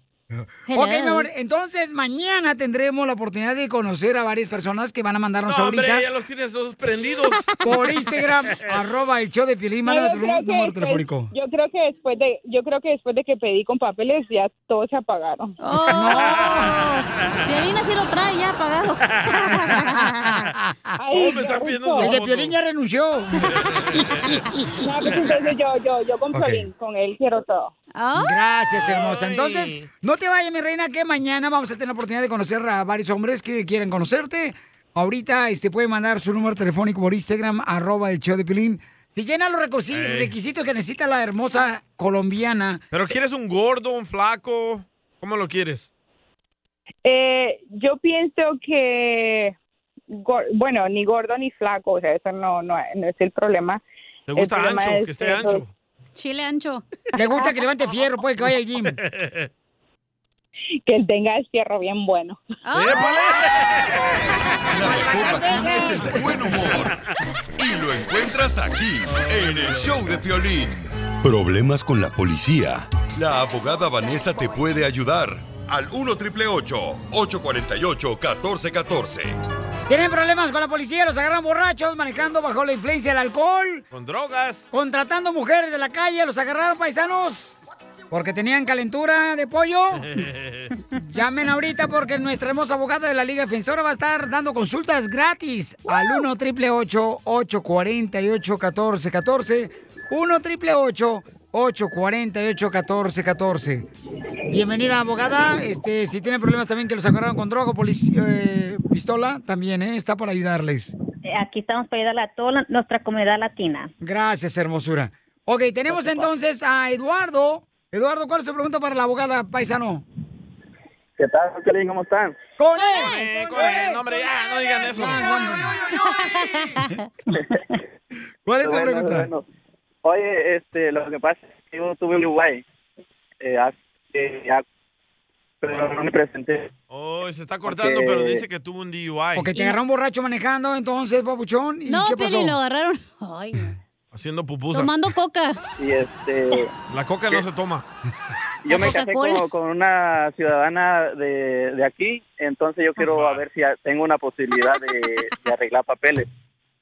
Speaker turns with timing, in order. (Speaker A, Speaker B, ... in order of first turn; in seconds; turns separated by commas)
Speaker A: 0.3-6.0, Speaker B: 0.7-1.3, Speaker C: 5.5-7.5, Speaker A: 7.6-11.3, Speaker D: 9.8-15.6, Speaker B: 15.6-20.4, Speaker A: 15.9-16.5, Speaker C: 16.1-16.9, Speaker C: 19.1-19.5, Speaker A: 19.8-21.0, Speaker D: 21.0-22.1, Speaker C: 21.1-22.6, Speaker A: 22.0-24.6, Speaker C: 23.4-24.4, Speaker D: 24.8-27.7, Speaker A: 26.3-26.7, Speaker B: 28.0-28.4, Speaker A: 28.1-42.8, Speaker C: 28.7-29.9, Speaker C: 39.9-40.3, Speaker C: 42.9-45.9, Speaker D: 47.0-49.5, Speaker D: 50.1-53.8, Speaker C: 54.3-55.7, Speaker D: 54.4-55.6, Speaker B: 56.2-56.8, Speaker A: 57.1-59.0, Speaker D: 57.2-57.5, Speaker C: 59.0-59.5, Speaker D: 60.8-62.4, Speaker B: 62.6-63.3, Speaker C: 62.7-64.2, Speaker E: 64.7-67.0, Speaker A: 65.2-66.3, Speaker D: 65.5-65.8, Speaker E: 67.6-79.4, Speaker C: 69.1-70.0, Speaker A: 79.9-83.8, Speaker C: 83.9-84.7, Speaker A: 84.7-90.1, Speaker C: 90.0-90.7, Speaker A: 91.0-103.9, Speaker A: 104.5-110.9, Speaker F: 111.3-113.9, Speaker A: 114.0-120.0, Speaker G: 121.2-122.3, Speaker A: 122.6-126.0, Speaker B: 122.8-123.3, Speaker C: 123.0-125.7, Speaker B: 126.1-127.0, Speaker A: 128.5-129.3, Speaker G: 128.6-129.4, Speaker G: 130.1-132.6, Speaker G: 133.4-134.6, Speaker G: 135.6-136.7, Speaker C: 136.9-139.5, Speaker G: 137.7-138.4, Speaker A: 139.4-142.6, Speaker B: 141.9-143.8, Speaker C: 144.1-144.9, Speaker B: 144.7-145.6, Speaker G: 145.8-146.7, Speaker C: 146.9-147.9, Speaker G: 148.7-156.3, Speaker B: 148.7-149.4, Speaker C: 153.0-153.4